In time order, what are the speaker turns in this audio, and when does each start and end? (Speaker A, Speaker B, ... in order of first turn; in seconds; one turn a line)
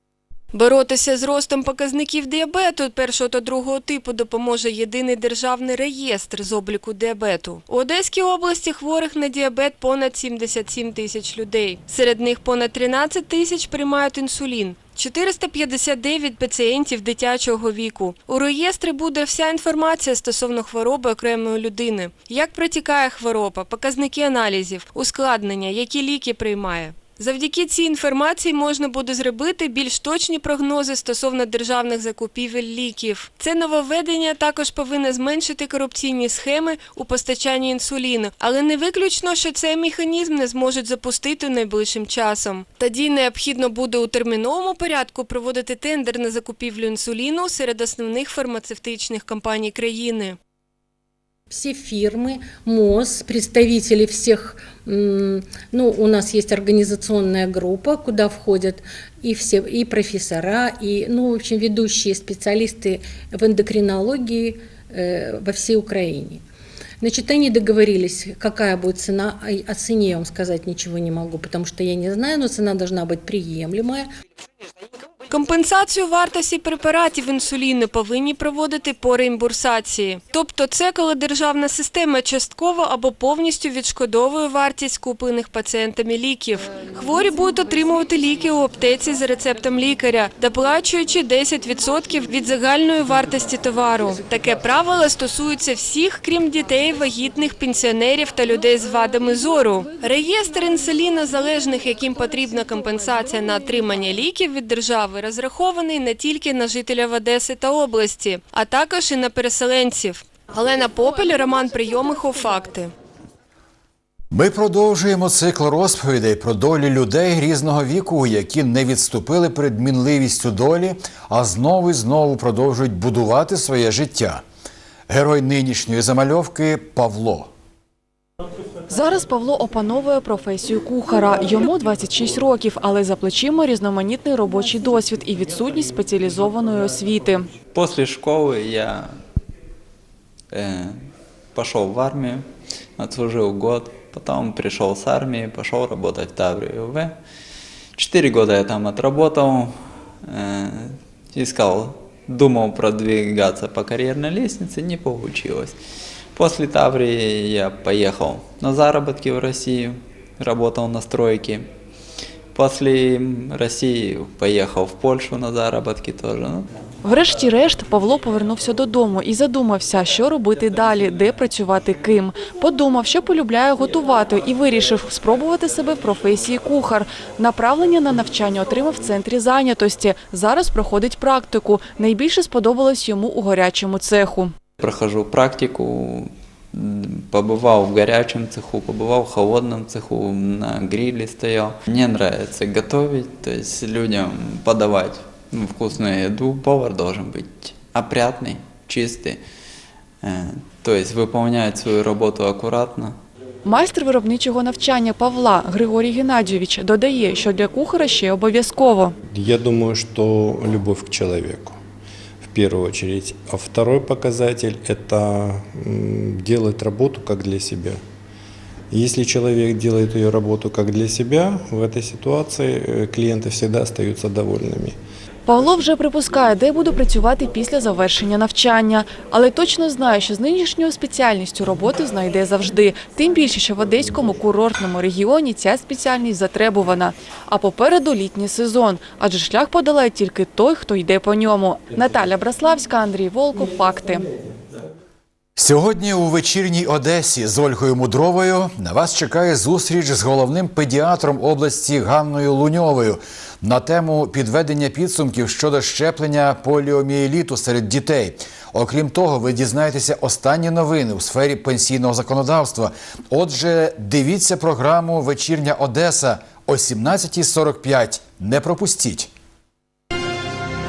Speaker A: 0.5-50.4
Speaker B: 51.5-66.4
Speaker B: 67.0-74.0
Speaker A: 75.3-112.9
Speaker C: 114.3-124.4
Speaker C: 125.1-127.5
Speaker D: 128.9-137.5
Speaker E: 137.7-139.1
Speaker E: 140.5-147.2
Speaker E: 148.0-155.8
Speaker E: 156.3-161.7
Speaker E: 162.5-166.7
Speaker D: 167.0-184.5
Speaker E: 184.8-199.4
Speaker E: 200.2-203.2
Speaker D: 203.6-209.1
Speaker F: 209.2-211.8
Speaker F: 212.4-218.0
Speaker F: 218.9-225.0
Speaker D: 225.5-244.2
Speaker C: 245.6-269.3